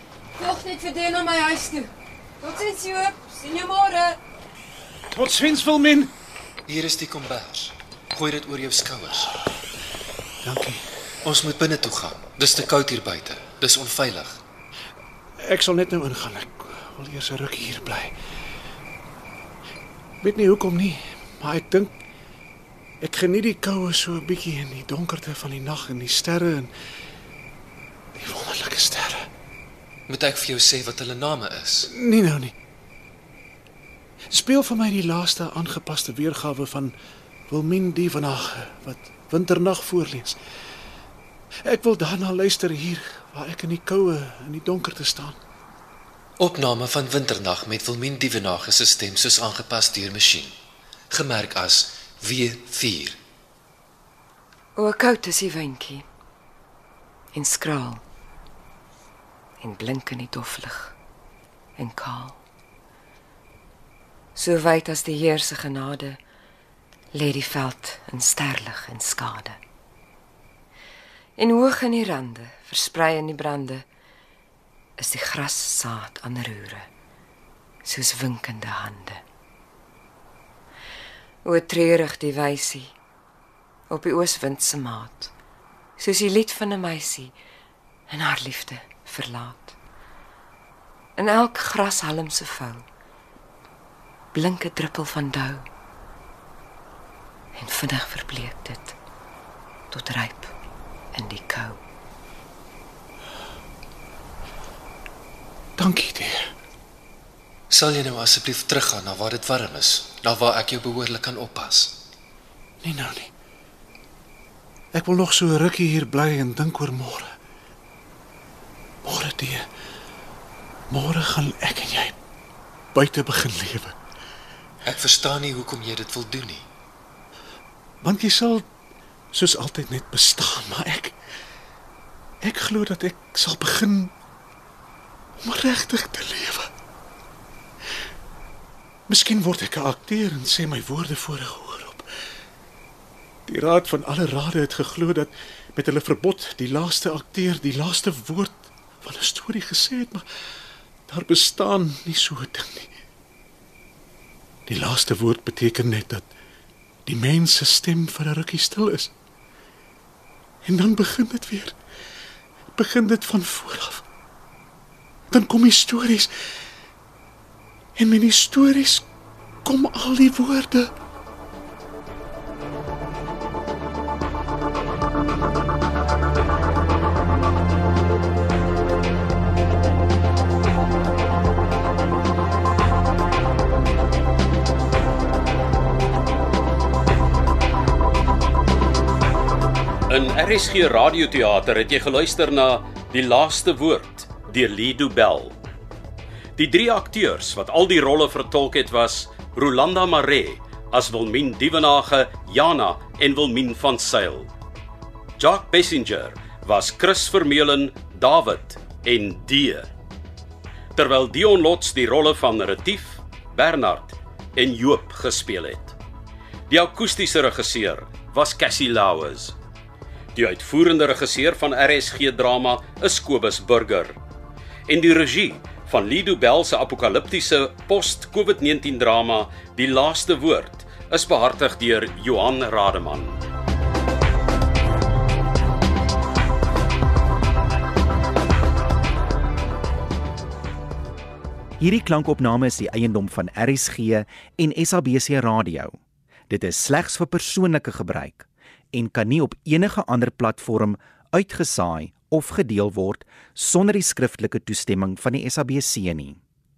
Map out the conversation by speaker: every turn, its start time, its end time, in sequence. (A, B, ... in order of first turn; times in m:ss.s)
0:00.4-0:04.2 A
0:05.1-0:06.1 B
0:06.7-0:09.3 C
0:10.4-0:10.8 B
0:11.2-0:14.4 C
0:15.4-0:18.1 B
0:20.2-0:21.9 B
0:23.0-0:26.7 B
0:28.2-0:29.3 B
0:30.1-0:31.9 C
0:31.9-0:32.6 B
0:34.3-0:36.9 B
0:37.5-0:40.4 B
0:41.6-0:45.4 B
0:46.4-0:50.5 C
0:51.1-0:53.2 C
0:54.8-0:56.0 A
0:57.3-0:58.0 A
0:59.6-1:01.0 A
1:01.8-1:02.4 A
1:04.4-1:06.2 A
1:07.1-1:09.6 A
1:11.4-1:13.9 A
1:15.0-1:16.9 A
1:17.8-1:19.2 A
1:21.4-1:22.9 A
1:23.9-1:25.3 A
1:26.0-1:27.4 A
1:28.1-1:29.8 A
1:31.2-1:32.8 A
1:34.3-1:35.7 A
1:37.6-1:39.0 A
1:39.9-1:40.5 A
1:41.1-1:41.8 A
1:45.8-1:46.4 B
1:47.7-1:52.0 C
1:52.8-1:53.3 B
1:54.9-1:57.3 B
1:59.0-1:59.6 B
2:00.9-2:02.2 B
2:02.9-2:04.0 B
2:04.8-2:06.7 C
2:08.0-2:08.6 B
2:09.3-2:11.2 B
2:12.4-2:14.1 B
2:15.4-2:16.7 B
2:19.1-2:22.1 B
2:23.5-2:30.2 B
2:31.1-2:32.9 B
2:34.7-2:36.3 B
2:37.1-2:39.1 B
2:40.6-2:41.8 B
2:42.8-2:44.0 B
2:45.3-2:46.3 B
2:48.0-2:49.0 B
2:49.6-2:50.9 B
3:10.1-3:15.6 D
3:16.6-3:24.5 D
3:25.4-3:29.9 D
3:30.9-3:36.0 D
3:36.7-3:39.5 D
3:40.4-3:44.2 D
3:44.9-3:53.4 D
4:01.8-4:06.0 E
4:06.5-4:16.4 E